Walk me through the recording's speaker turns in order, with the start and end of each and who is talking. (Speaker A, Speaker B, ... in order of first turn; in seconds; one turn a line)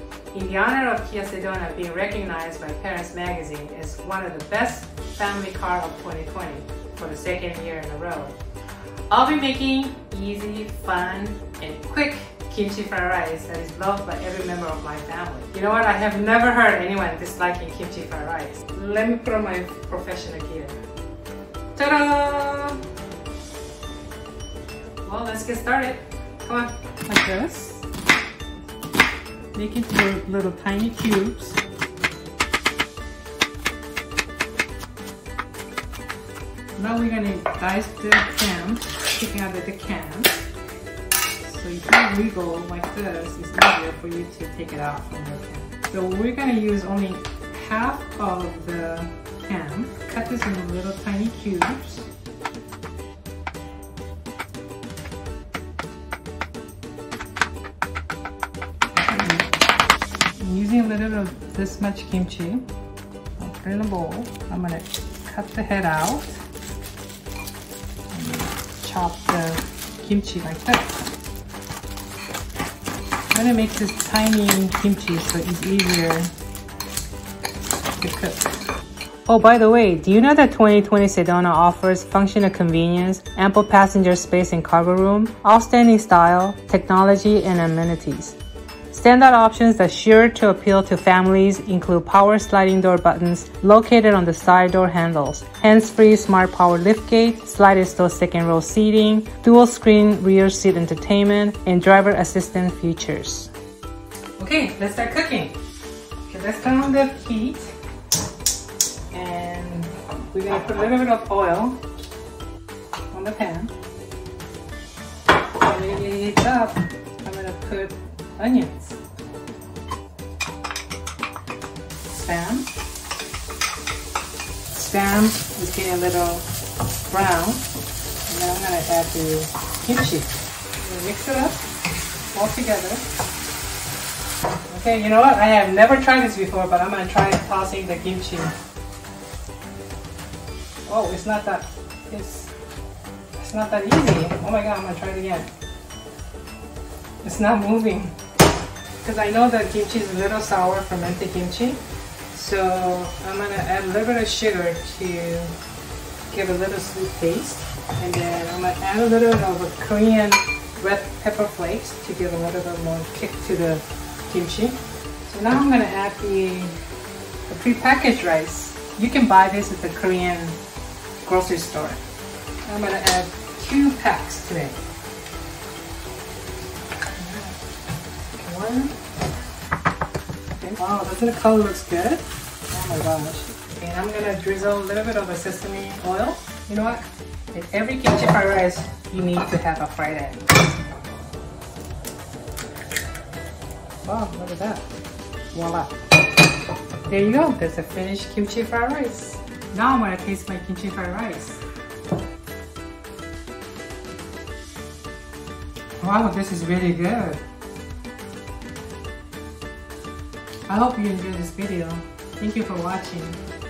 Speaker A: 0.3-8.3
Speaker A: 9.1-20.8
Speaker A: 21.7-22.8
Speaker A: 25.0-27.8
Speaker A: 29.5-31.6
Speaker A: 36.8-40.4
Speaker A: 41.4-52.1
Speaker A: 58.9-59.5
Speaker A: 60.4-62.6
Speaker A: 63.4-66.4
Speaker A: 68.1-71.1
Speaker A: 73.3-76.3
Speaker A: 78.0-78.5
Speaker A: 79.2-88.3
Speaker A: 88.9-103.5
Speaker A: 104.4-105.5
Speaker A: 106.2-107.7
Speaker A: 109.1-111.8
Speaker A: 113.1-113.7
Speaker A: 115.6-119.0
Speaker A: 122.0-122.7
Speaker A: 124.7-126.5
Speaker A: 127.1-127.6
Speaker A: 128.3-131.6
Speaker A: 132.3-133.0
Speaker A: 134.7-138.5
Speaker A: 140.9-142.5
Speaker A: 143.4-145.5
Speaker A: 147.2-148.1
Speaker A: 149.0-151.8
Speaker A: 152.3-155.5
Speaker A: 156.3-166.8
Speaker A: 167.5-170.6
Speaker A: 171.2-172.0
Speaker A: 172.6-174.8
Speaker A: 177.1-177.6
Speaker A: 178.3-178.9
Speaker A: 180.5-190.5
Speaker A: 194.0-194.8
Speaker A: 195.5-195.9
Speaker A: 197.1-201.6
Speaker A: 206.0-207.4
Speaker A: 210.7-213.4